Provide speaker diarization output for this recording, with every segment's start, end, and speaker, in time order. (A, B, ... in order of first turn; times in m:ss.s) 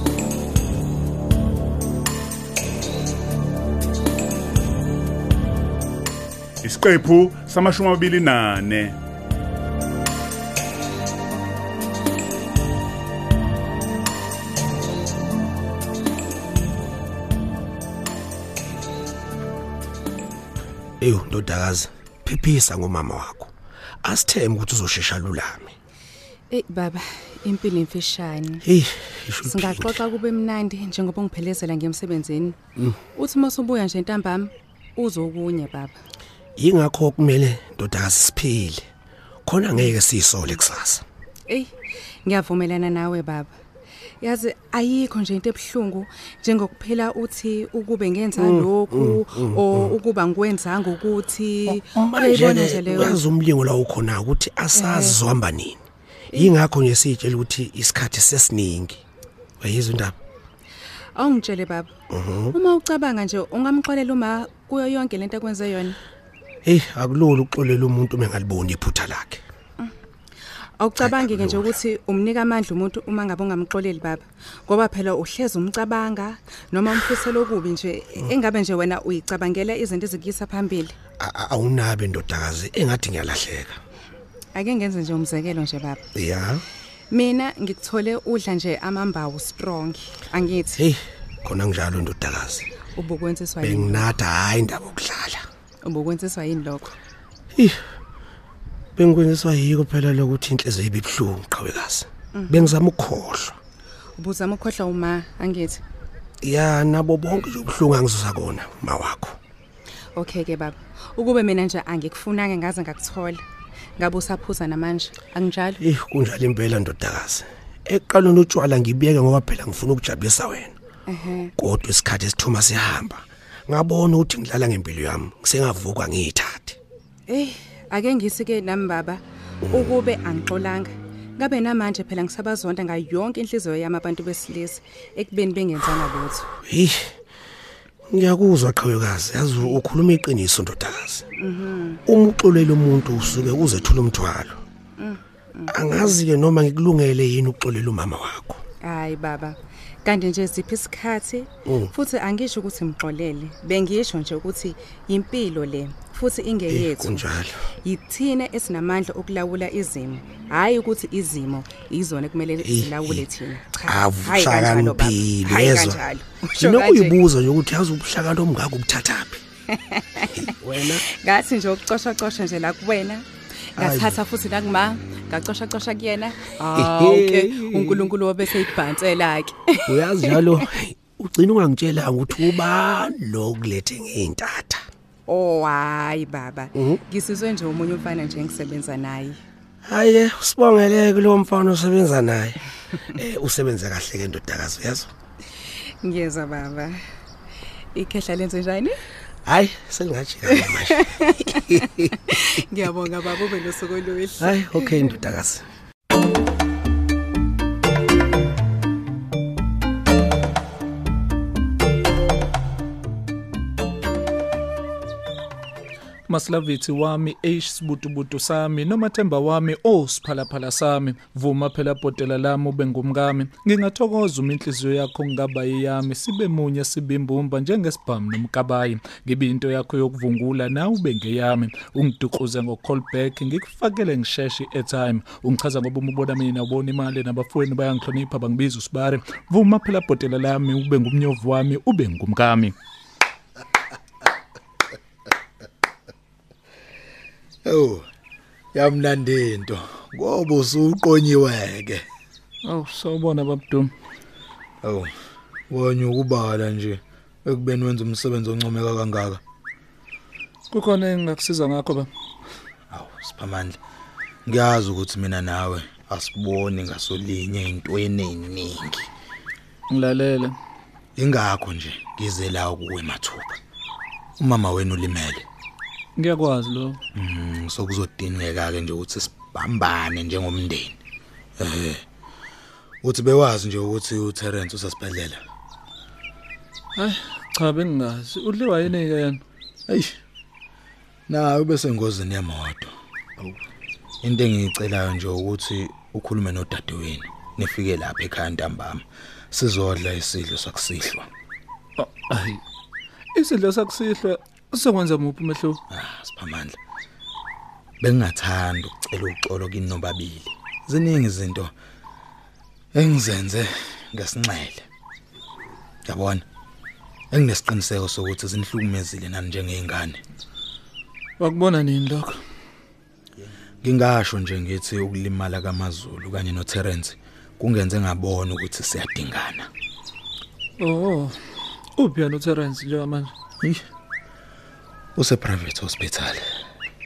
0:06.6-0:09.0 A
0:21.0-0:23.5 B
0:24.0-0:25.8 B
0:26.5-0:28.6 C
0:28.7-0:30.0 B
0:29.4-0:32.6 C
0:33.2-0:36.0 C
0:36.6-0:38.8 B
0:39.5-0:41.0 B
0:42.2-0:43.5 C
0:44.2-0:53.2 C
0:48.4-0:50.0 B
0:51.9-0:55.8 B
0:54.8-0:55.2 C
0:56.4-0:59.0 B
0:59.6-1:00.2 B
1:01.2-1:01.9 C
1:02.1-1:02.6 B
1:02.5-1:06.0 C
1:06.6-1:09.4 B
1:10.8-1:20.9 C
1:11.0-1:11.7 B
1:21.2-1:23.8 B
1:24.5-1:26.0 C
1:26.2-1:26.6 B
1:27.1-1:30.8 C
1:30.8-1:32.7 B
1:32.9-1:34.2 C
1:33.6-1:35.4 B
1:35.8-1:36.9 C
1:39.0-1:43.6 B
1:42.4-1:42.7 C
1:44.2-1:45.8 C
1:46.4-1:49.4 B
1:50.2-1:53.4 C
1:54.0-1:55.8 C
1:55.8-2:00.8 B
2:01.1-2:01.5 C
2:01.6-2:06.8 B
2:07.3-2:16.5 C
2:16.7-2:17.1 B
2:18.1-2:21.2 B
2:21.4-2:22.0 C
2:22.1-2:24.6 B
2:25.0-2:26.1 C
2:25.7-2:28.6 B
2:28.8-2:37.3 C
2:36.7-2:37.6 B
2:37.8-2:47.2 C
2:42.6-2:43.2 B
2:43.9-2:46.0 B
2:46.6-2:49.4 B
2:49.7-3:00.5 C
2:50.4-2:51.0 B
2:53.8-2:54.2 B
2:56.6-2:58.1 B
2:59.9-3:04.8 B
3:05.3-3:09.4 C
3:09.8-3:12.6 B
3:13.2-3:15.1 B
3:16.0-3:17.0 C
3:17.9-3:19.0 C
3:19.5-3:22.0 B
3:20.6-3:24.9 C
3:24.4-3:25.6 B
3:36.3-4:02.7 D
4:07.6-4:08.1 E
4:08.7-4:12.0 E
4:12.6-4:13.9 D
4:14.8-4:15.1 E
4:15.7-4:19.4 E
4:20.7-4:22.1 D
4:22.9-4:23.8 E
4:24.5-4:29.1 E
4:29.9-4:30.6 D
4:31.2-4:33.6 E
4:34.4-4:35.5 E
4:36.2-4:37.0 D
4:37.2-4:41.0 E
4:41.6-4:42.0 E
4:43.0-4:45.4 E
4:47.0-4:49.4 D
4:49.9-4:50.1 E
4:51.3-4:52.9 E
4:54.2-5:01.3 E
5:02.0-5:02.6 D
5:03.4-5:05.8 D
5:05.9-5:06.8 E
5:08.0-5:11.7 E
5:13.0-5:14.9 E
5:16.1-5:16.4 E
5:17.3-5:20.2 E
5:21.4-5:22.4 D
5:23.4-5:29.7 E
5:30.8-5:31.4 D
5:32.0-5:33.3 D
5:35.2-5:36.4 E